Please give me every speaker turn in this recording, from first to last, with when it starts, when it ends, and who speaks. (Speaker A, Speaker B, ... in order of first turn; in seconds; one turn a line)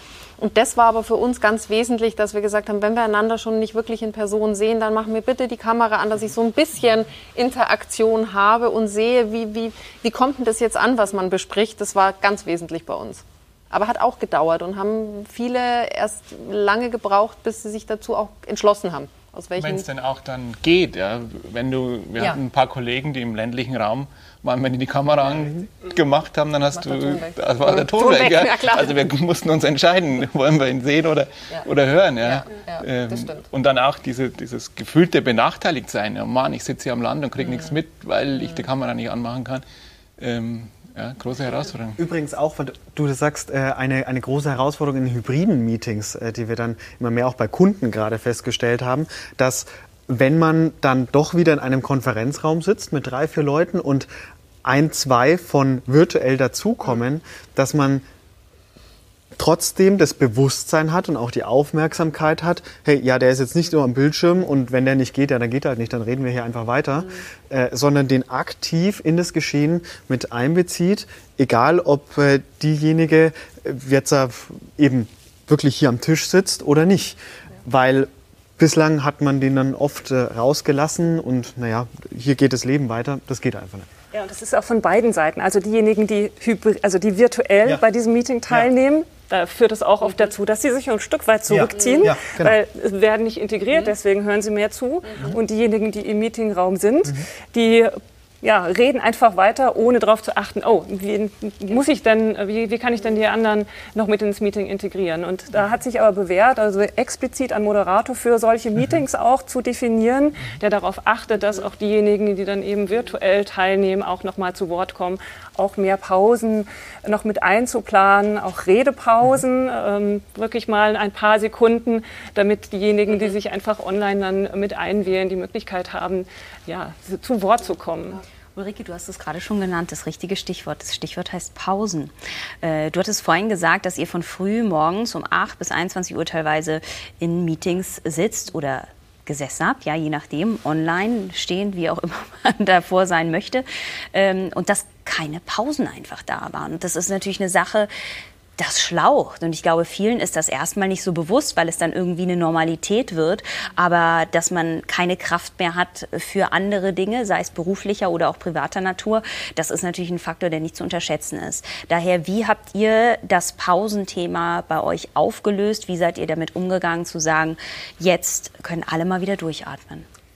Speaker A: 0.4-19.9
Speaker B: 19.6-39.6
Speaker A: 26.7-29.0
Speaker A: 32.2-33.4
Speaker B: 40.2-42.0
Speaker C: 42.0-54.1
Speaker C: 54.6-58.0
Speaker C: 59.4-83.9
Speaker D: 84.1-128.2
Speaker C: 91.5-92.6
Speaker E: 128.5-147.9
Speaker E: 148.6-170.1